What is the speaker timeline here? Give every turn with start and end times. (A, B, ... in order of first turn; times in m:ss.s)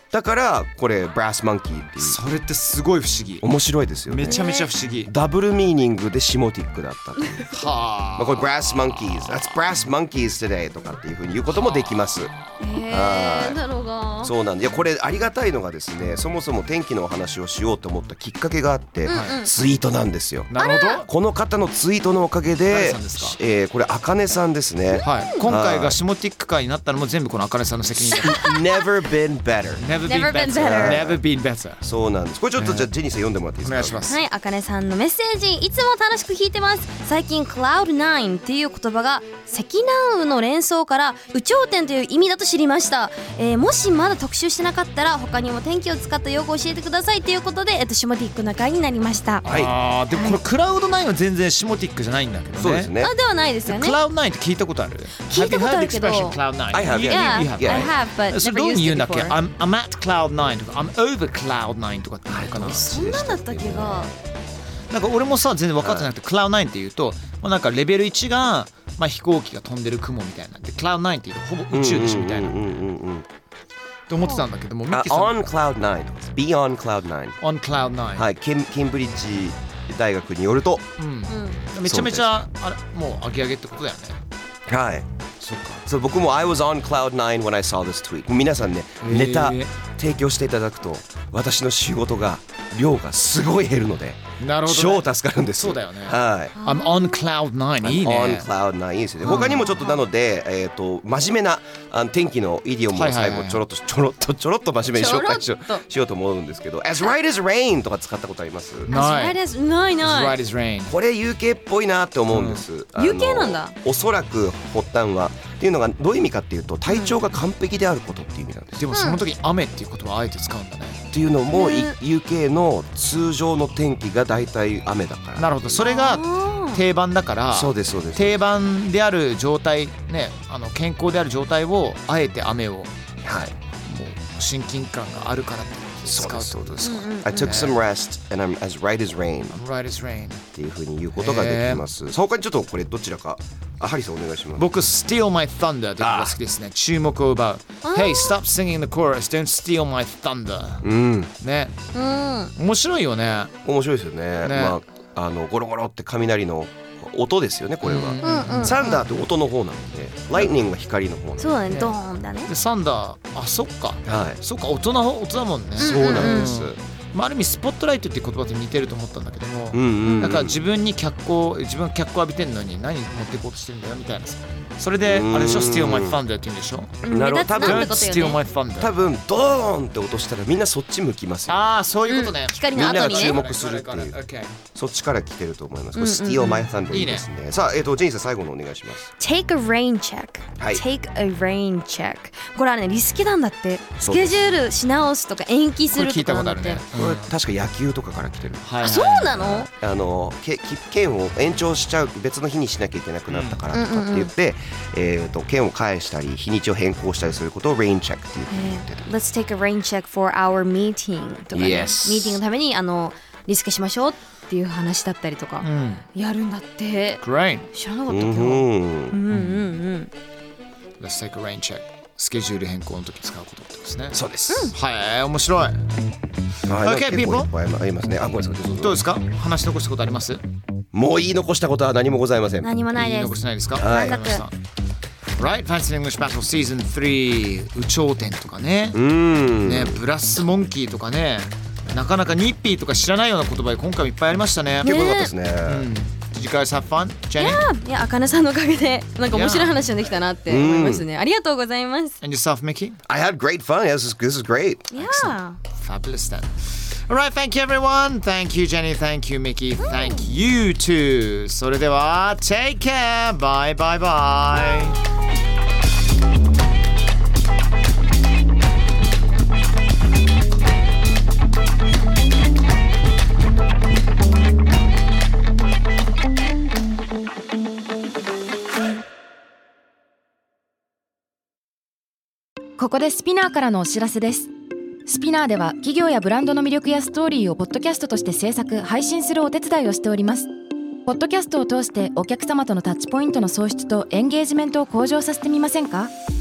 0:00.1-0:02.2 A
0:02.0-0:03.5 B
0:03.4-0:04.4 A
0:04.1-0:05.1 B
0:04.3-0:04.7 C
0:05.1-0:07.6 A
0:07.5-0:09.5 B
0:08.2-0:12.3 A
0:12.6-0:14.3 C
0:12.9-0:13.6 A
0:14.2-0:20.5 A
0:19.1-0:19.5 C
0:19.1-0:19.4 B
0:20.5-0:21.1 B
0:20.6-0:21.1 C
0:21.1-0:26.0 A
0:22.7-0:23.4 B
0:24.9-0:25.4 C
0:25.0-0:28.5 B
0:28.2-0:29.9 A
0:29.8-0:31.8 B
0:30.0-0:31.0 C
0:30.5-0:31.2 A
0:31.8-0:34.0 A
0:32.6-0:32.9 B
0:33.6-0:34.2 B
0:34.1-0:49.4 C
0:49.4-0:49.8 A
0:49.4-0:52.9 B
0:50.1-0:50.4 C
0:52.6-0:53.1 A
0:53.0-0:54.0 C
0:53.6-1:02.9 B
0:55.2-0:56.4 C
0:56.7-0:57.9 A
0:56.9-0:59.4 C
1:02.3-1:04.2 A
1:02.7-1:04.1 C
1:04.9-1:12.6 B
1:05.8-1:06.1 A
1:11.7-1:13.3 A
1:14.1-1:15.4 B
1:14.9-1:17.4 A
1:17.4-1:18.3 B
1:18.2-1:20.9 A
1:21.0-1:24.2 B
1:21.3-1:21.6 C
1:21.8-1:22.4 A
1:24.7-1:36.6 A
1:29.0-1:29.7 B
1:34.4-1:38.5 B
1:36.6-1:37.2 C
1:37.8-1:48.9 A
1:39.2-1:39.8 B
1:39.3-1:40.0 C
1:42.9-1:43.6 B
1:44.9-1:45.8 C
1:48.9-1:49.4 B
1:48.9-1:50.4 C
1:50.0-1:50.9 B
1:50.9-1:58.9 A
1:52.3-1:52.6 B
1:53.0-1:53.8 C
1:56.9-1:57.1 C
1:58.8-2:01.0 B
1:58.9-1:59.2 C
2:01.1-2:05.9 A
2:01.5-2:02.0 C
2:05.4-2:12.9 B
2:05.8-2:06.8 C
2:07.5-2:08.4 A
2:13.2-2:13.5 A
2:13.8-2:17.8 B
2:16.1-2:19.6 A
2:16.8-2:17.6 C
2:19.5-2:20.4 B
2:20.6-2:24.7 A
2:21.2-2:21.8 B
2:24.6-2:30.9 B
2:26.0-2:26.4 A
2:27.8-2:28.4 C
2:30.8-2:31.3 A
2:31.4-2:31.7 B
2:31.9-2:32.5 C
2:32.6-2:33.5 B
2:33.6-2:41.6 A
2:34.4-2:34.8 B
2:37.8-2:38.9 B
2:38.2-2:39.0 C
2:41.4-2:42.5 C
2:41.7-2:57.0 B
2:44.1-2:44.4 A
2:45.8-2:46.6 C
2:45.8-2:46.8 A
2:49.7-2:50.6 A
2:50.0-2:50.4 C
2:55.0-2:56.2 A
2:57.0-2:58.4 C
2:57.1-2:58.1 A
2:57.6-2:58.9 B
2:58.8-3:01.6 A
3:01.5-3:04.6 B
3:02.1-3:03.4 C
3:02.7-3:04.2 A
3:04.8-3:09.1 A
3:06.0-3:06.7 C
3:06.9-3:07.3 B
3:09.2-3:16.8 C
3:10.6-3:10.8 A
3:14.0-3:14.4 A
3:15.9-3:17.3 B
3:16.9-3:18.7 A
3:18.6-3:19.7 B
3:18.8-3:19.7 C
3:19.6-3:29.1 A
3:23.3-3:23.6 B
3:23.7-3:24.3 C
3:28.5-3:40.1 C
3:31.5-3:32.4 A
3:35.6-3:36.0 B
3:37.2-3:37.7 B
3:38.1-3:39.2 A
3:39.3-3:39.6 B
3:41.0-3:44.2 B
3:44.1-3:44.7 A
3:44.5-3:44.7 C
3:44.7-3:45.8 B
3:46.6-3:49.0 A
3:46.8-3:47.5 B
3:48.7-3:50.4 B
3:50.9-3:52.7 A
3:52.6-3:54.4 C
3:53.0-3:54.6 B
3:53.8-3:54.4 A
3:55.4-3:59.0 B
3:58.9-4:00.0 A
3:59.6-4:04.9 B
4:04.8-4:05.9 A
4:04.8-4:05.3 C
4:05.6-4:07.6 B
4:07.4-4:12.2 C
4:09.3-4:09.8 B
4:10.5-4:11.1 A
4:12.2-4:13.0 B
4:13.1-4:15.1 A
4:14.9-4:15.6 C
4:15.1-4:25.0 B
4:19.8-4:20.3 C
4:42.8-4:44.5 D
4:45.1-4:50.5 D
4:51.0-4:56.1 D